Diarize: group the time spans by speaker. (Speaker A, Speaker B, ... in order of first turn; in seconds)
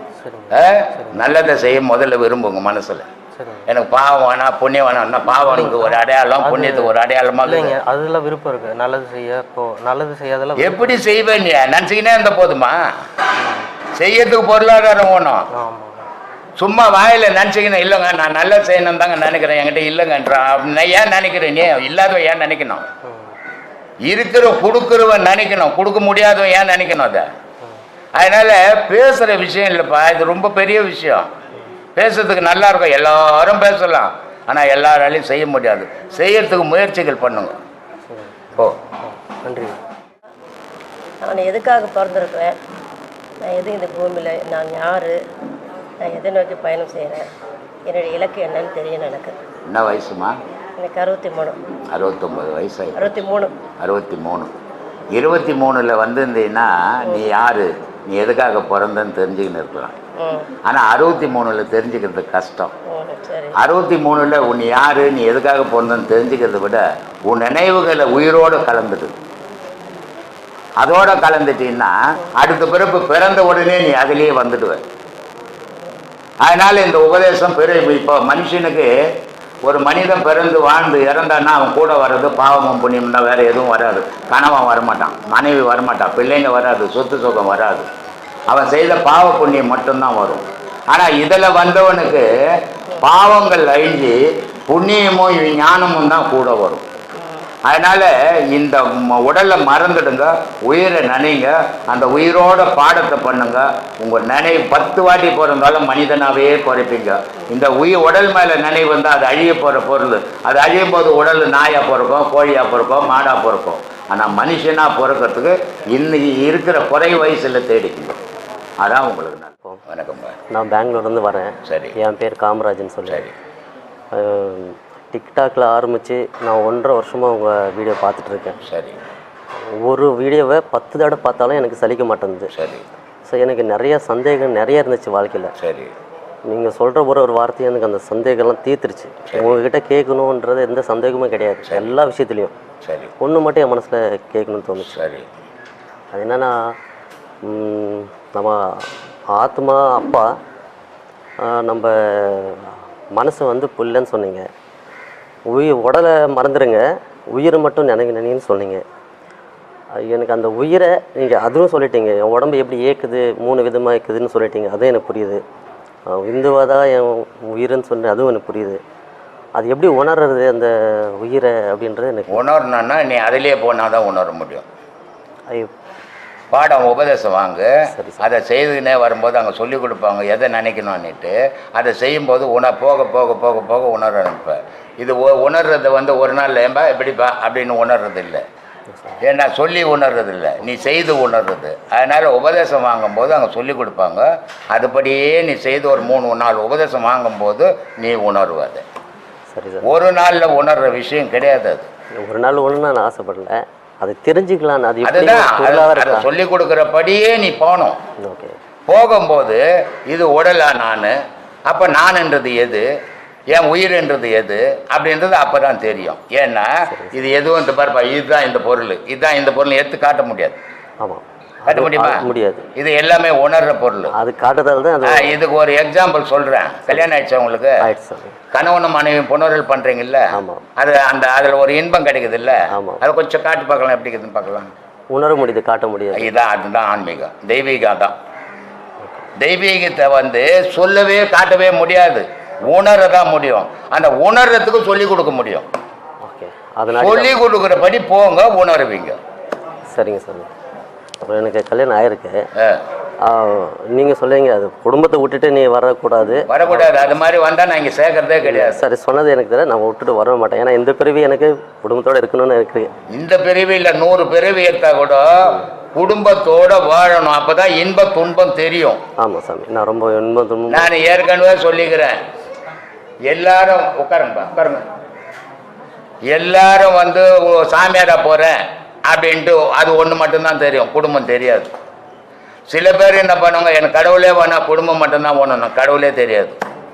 Speaker A: 0.2-1.3, 3.4-3.7, 5.5-6.9, 7.4-11.0, 13.4-13.7, 15.5-16.1, 38.1-39.8
Speaker B: 0.5-3.1, 3.7-7.8, 10.6-12.8, 13.9-15.5, 16.6-22.9, 24.1-27.3, 28.2-31.3, 32.0-37.5, 49.7-50.4, 51.9-53.2, 53.8-54.5, 55.1-60.0, 60.7-62.7, 63.6-69.2, 70.8-74.8, 76.4-79.1, 79.6-87.9, 88.5-92.3, 93.0-96.8, 97.7-118.2, 118.8-120.4, 121.7-121.9, 128.7-129.0, 132.6-132.8, 135.6-135.9, 142.8-143.1, 144.9-145.3, 172.3-174.7, 176.5-188.4, 189.2-198.8, 199.8-201.9, 205.1-208.0, 208.9-211.2, 211.7-212.9, 213.5-220.6, 221.7-222.2, 222.8-224.1, 225.1-227.8, 228.5-234.7, 236.2-238.2, 239.4-245.7, 247.0-249.2, 256.5-258.8, 263.1-269.0, 270.7-272.2, 273.3-274.9, 276.3-281.7, 282.7-286.6
Speaker C: 41.2-42.6, 43.5-45.2, 46.0-47.3, 47.9-49.4, 50.8-51.6, 53.0-53.5, 57.1-57.3, 60.2-60.5, 62.9-63.6, 97.2-97.5
Speaker D: 120.5-123.3, 124.1-128.6, 129.8-132.5, 133.2-135.5, 136.5-142.5, 143.2-144.9, 146.1-146.7, 147.4-150.3, 151.4-154.5, 155.5-158.8, 160.0-165.4, 166.1-168.8, 169.6-172.4, 177.9-178.2, 188.9-189.2, 199.5-199.9, 202.2-206.3, 208.2-208.6, 216.9-217.2, 221.0-222.7, 224.1-225.4, 227.8-228.4, 230.3-230.7, 232.7-233.0, 235.1-236.3, 246.2-247.3, 249.9-250.5, 251.2-252.5, 253.2-257.1, 258.4-262.9, 269.2-270.9